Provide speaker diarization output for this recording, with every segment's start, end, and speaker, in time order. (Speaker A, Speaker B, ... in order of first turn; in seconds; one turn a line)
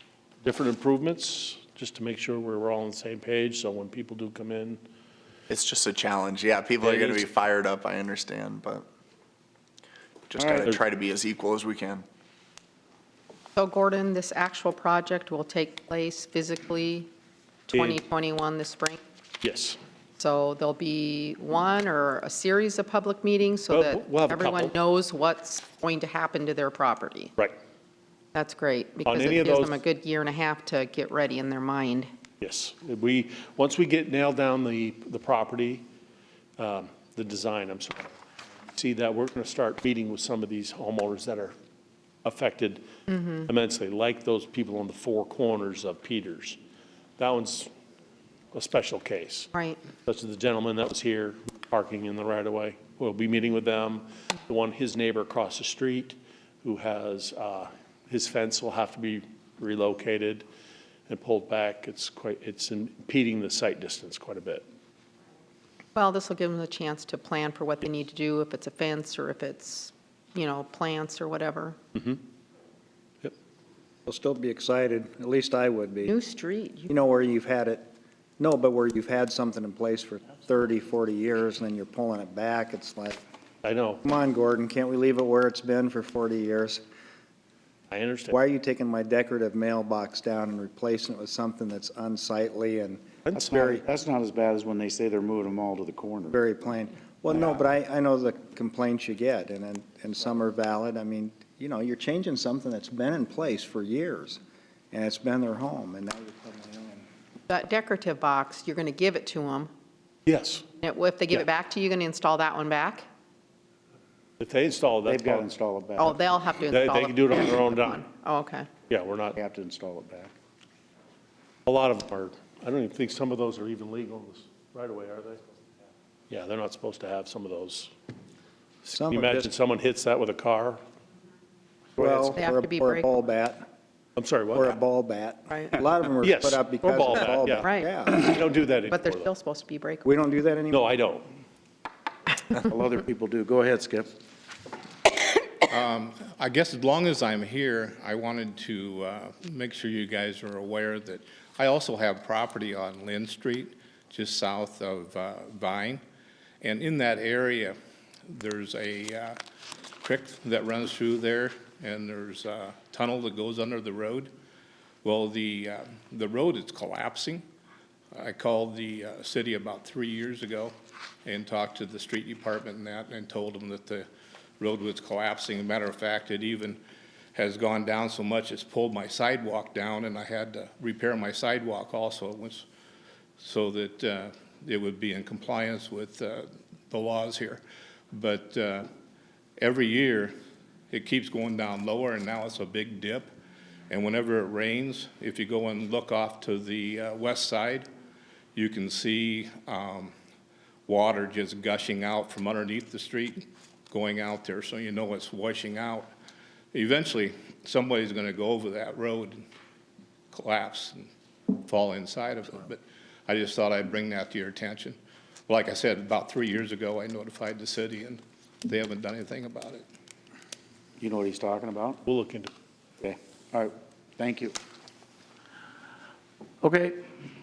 Speaker A: 0.4-4.8
Speaker B: 5.5-8.9
Speaker B: 10.3-12.1
Speaker C: 13.6-17.1
Speaker C: 17.7-19.0
Speaker A: 17.7-18.0
Speaker A: 19.4-19.8
Speaker C: 20.2-27.3
Speaker A: 23.7-24.7
Speaker C: 28.3-32.1
Speaker A: 29.1-29.8
Speaker A: 32.4-35.9
Speaker A: 36.6-38.1
Speaker A: 38.8-41.5
Speaker A: 42.2-42.9
Speaker C: 43.1-43.5
Speaker A: 43.5-46.6
Speaker A: 47.2-47.7
Speaker A: 48.5-49.5
Speaker C: 49.5-49.8
Speaker A: 50.0-60.5
Speaker A: 61.1-64.7
Speaker C: 66.0-71.8
Speaker D: 74.1-76.2
Speaker C: 76.1-77.0
Speaker D: 76.9-77.9
Speaker D: 78.4-83.2
Speaker A: 83.6-84.0
Speaker D: 84.0-86.8
Speaker A: 87.9-88.4
Speaker D: 88.3-93.8
Speaker E: 93.3-96.4
Speaker D: 96.3-104.4
Speaker D: 104.9-107.1
Speaker C: 107.5-109.7
Speaker A: 110.3-110.7
Speaker C: 110.8-113.1
Speaker A: 114.4-115.5
Speaker E: 115.0-116.2
Speaker C: 116.0-118.7
Speaker A: 116.7-118.0
Speaker A: 118.9-119.4
Speaker E: 119.3-120.3
Speaker A: 121.7-125.4
Speaker A: 126.3-127.9
Speaker A: 128.8-130.8
Speaker D: 128.9-129.5
Speaker D: 132.0-133.7
Speaker A: 132.0-132.4
Speaker C: 132.4-133.1
Speaker A: 134.2-134.8
Speaker D: 134.5-138.2
Speaker A: 136.2-139.3
Speaker C: 137.6-137.9
Speaker C: 138.9-140.1
Speaker D: 140.1-140.9
Speaker A: 140.7-141.3
Speaker E: 142.7-144.1
Speaker F: 145.7-156.0
Speaker F: 156.6-157.8
Speaker F: 158.3-159.4
Speaker F: 160.0-164.3
Speaker F: 165.0-167.4
Speaker F: 168.1-170.7
Speaker F: 171.3-174.1
Speaker F: 174.6-176.8
Speaker F: 177.3-182.7
Speaker F: 183.4-188.9
Speaker F: 189.6-190.3
Speaker F: 190.9-193.3
Speaker F: 193.9-197.9
Speaker F: 198.6-200.1
Speaker F: 200.9-206.1
Speaker F: 206.7-209.4
Speaker F: 210.3-219.8
Speaker E: 221.0-222.0
Speaker A: 222.1-222.5
Speaker E: 223.0-224.6
Speaker E: 226.6-227.1